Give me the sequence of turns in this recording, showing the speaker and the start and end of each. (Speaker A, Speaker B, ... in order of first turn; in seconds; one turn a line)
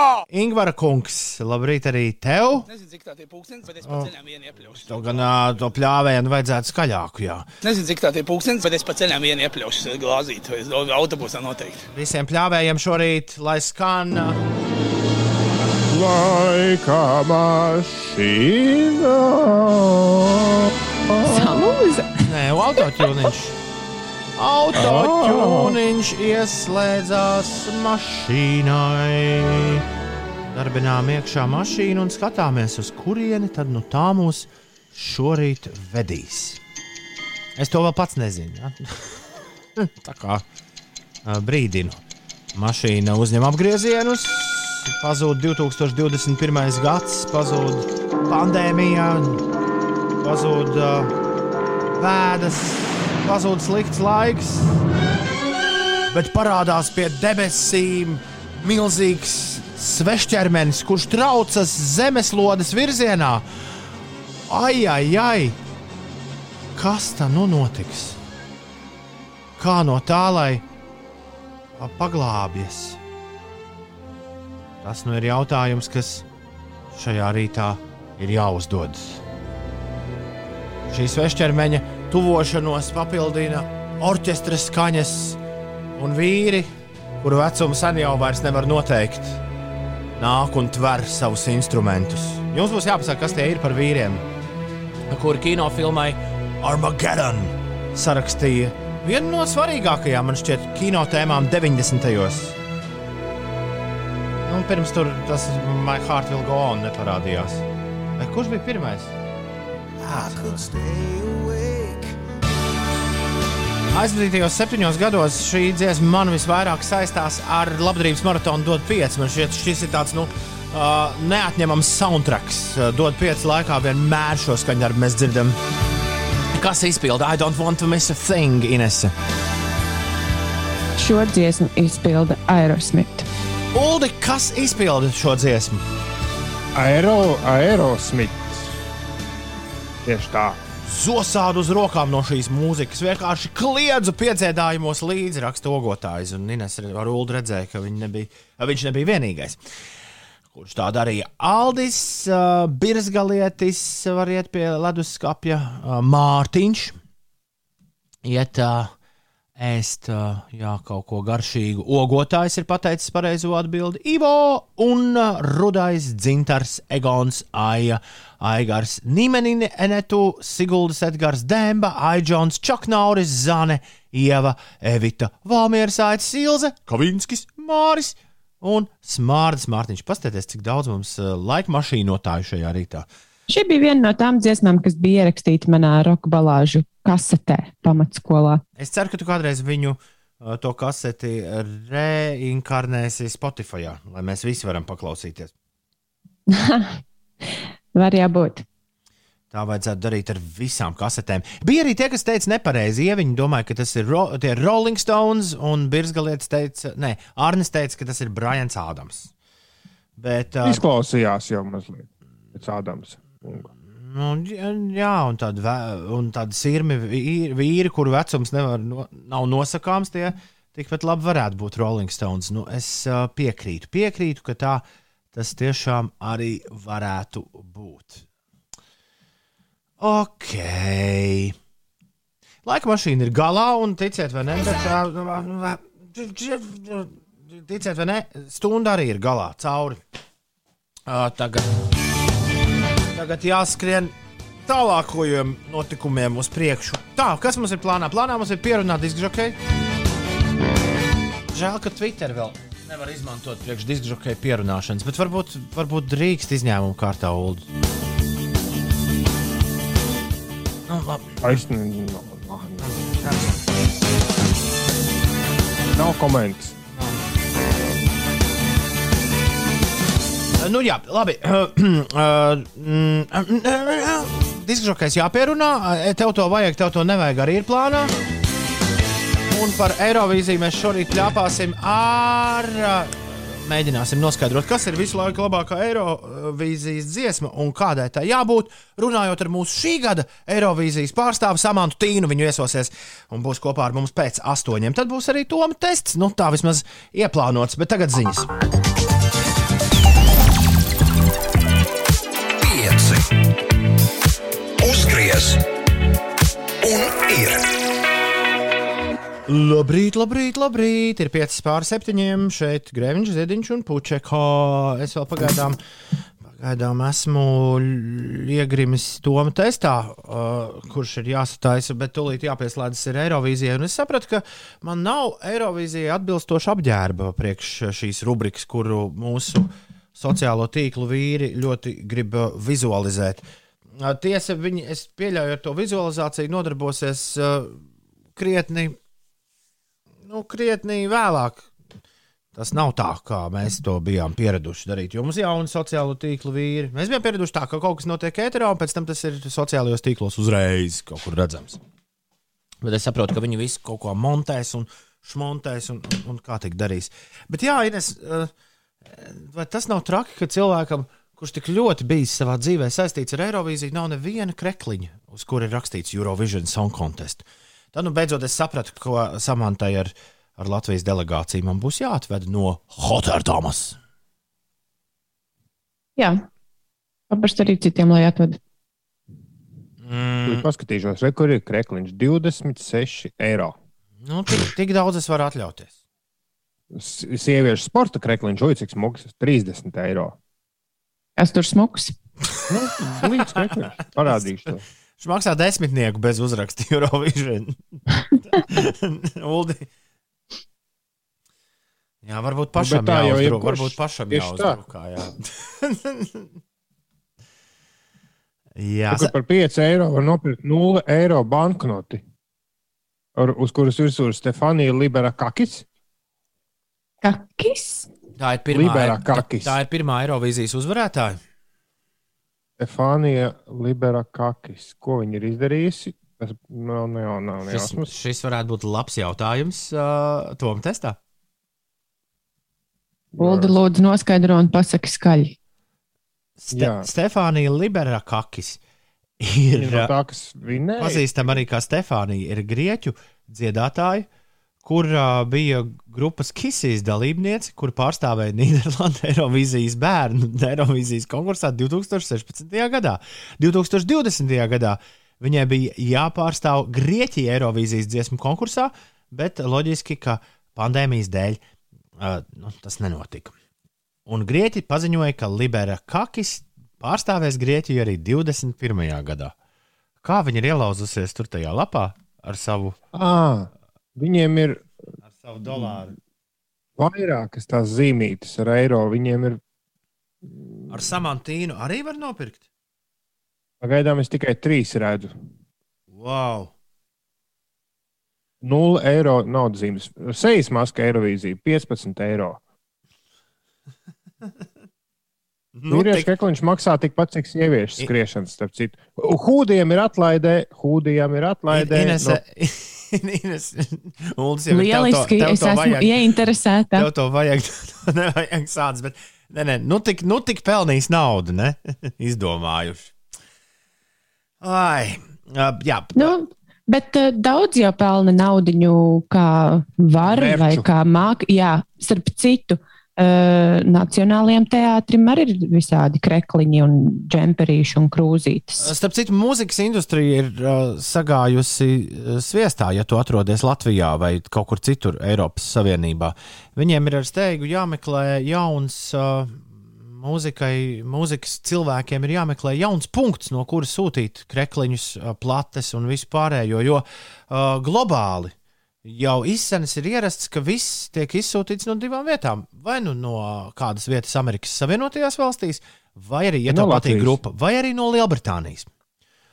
Speaker A: 0.3-2.7
Speaker B: 2.6-5.3
Speaker A: 3.8-4.1
Speaker A: 4.8-7.5
Speaker B: 7.6-11.9
Speaker A: 11.9-14.4
Speaker C: 15.9-21.6
Speaker D: 21.3-22.2
Speaker A: 22.2-23.6
Speaker A: 24.4-29.9
Speaker C: 24.7-25.8
Speaker A: 30.4-36.6
Speaker A: 37.6-39.2
Speaker A: 39.8-40.4
Speaker A: 41.2-42.0
Speaker A: 42.5-49.4
Speaker A: 50.2-51.1
Speaker A: 52.0-54.7
Speaker A: 56.1-63.4
Speaker A: 64.5-65.6
Speaker A: 66.8-68.2
Speaker A: 69.6-70.6
Speaker A: 71.8-73.0
Speaker A: 74.8-76.2
Speaker A: 76.9-79.2
Speaker A: 80.9-85.4
Speaker A: 86.0-86.7
Speaker A: 87.2-89.4
Speaker A: 90.2-94.2
Speaker A: 95.1-102.6
Speaker A: 104.4-107.6
Speaker A: 108.2-109.1
Speaker A: 110.0-111.8
Speaker A: 113.9-125.6
Speaker A: 126.5-129.1
Speaker D: 131.0-133.3
Speaker A: 133.7-135.8
Speaker C: 136.7-138.6
Speaker C: 140.1-140.6
Speaker A: 140.8-149.6
Speaker A: 150.5-156.9
Speaker A: 158.2-158.9
Speaker A: 159.6-183.1
Speaker D: 183.5-188.6
Speaker A: 188.8-195.5
Speaker D: 196.5-197.0
Speaker D: 197.9-198.6
Speaker A: 199.5-209.3
Speaker A: 210.2-210.8
Speaker C: 210.6-213.7
Speaker A: 213.9-228.2
Speaker A: 230.0-231.6
Speaker A: 232.6-240.0
Speaker A: 241.1-241.7
Speaker A: 243.1-244.1
Speaker A: 244.7-249.6
Speaker A: 251.5-257.7
Speaker A: 260.9-261.6
Speaker C: 261.4-262.8
Speaker A: 262.8-263.5
Speaker C: 265.9-266.8
Speaker A: 270.6-278.1
Speaker A: 279.5-298.5
Speaker E: 302.6-303.3
Speaker E: 304.8-305.6
Speaker E: 306.8-307.6
Speaker A: 309.5-315.8
Speaker A: 316.4-333.4
Speaker A: 333.9-337.8
Speaker A: 338.4-339.0
Speaker A: 340.3-341.7
Speaker A: 342.6-351.8
Speaker A: 352.8-358.5
Speaker A: 359.1-373.9
Speaker D: 376.2-376.4
Speaker D: 377.3-378.6
Speaker A: 380.0-380.7
Speaker C: 380.4-383.8
Speaker A: 384.2-385.9
Speaker C: 386.9-390.4
Speaker D: 391.4-392.1
Speaker C: 392.7-394.8
Speaker A: 393.4-393.7
Speaker A: 395.2-398.0
Speaker A: 398.5-399.9
Speaker A: 402.2-406.5
Speaker C: 402.8-404.8
Speaker A: 408.8-409.3
Speaker C: 409.1-412.2
Speaker C: 413.4-415.9
Speaker D: 417.2-418.1
Speaker A: 418.4-421.4
Speaker C: 418.7-419.7
Speaker C: 422.8-428.1
Speaker A: 427.7-431.2
Speaker C: 433.3-433.7
Speaker D: 433.4-435.6
Speaker A: 436.6-438.8
Speaker C: 436.7-437.1
Speaker A: 439.4-440.1
Speaker C: 439.7-441.6
Speaker A: 441.0-444.3
Speaker A: 444.8-461.6
Speaker A: 462.2-463.5
Speaker A: 464.3-469.5
Speaker A: 470.2-473.0
Speaker C: 473.1-474.8
Speaker A: 475.3-476.1
Speaker C: 477.0-479.6
Speaker C: 480.4-480.7
Speaker A: 480.9-482.6
Speaker C: 483.8-485.3
Speaker A: 486.1-486.7
Speaker C: 488.6-492.6
Speaker A: 495.8-496.3
Speaker C: 495.9-502.4
Speaker A: 501.7-506.1
Speaker D: 504.7-507.1
Speaker A: 506.9-513.1
Speaker A: 514.6-516.3
Speaker D: 516.2-528.9
Speaker C: 520.2-520.9
Speaker A: 528.8-548.5
Speaker A: 549.0-558.9
Speaker C: 556.7-557.4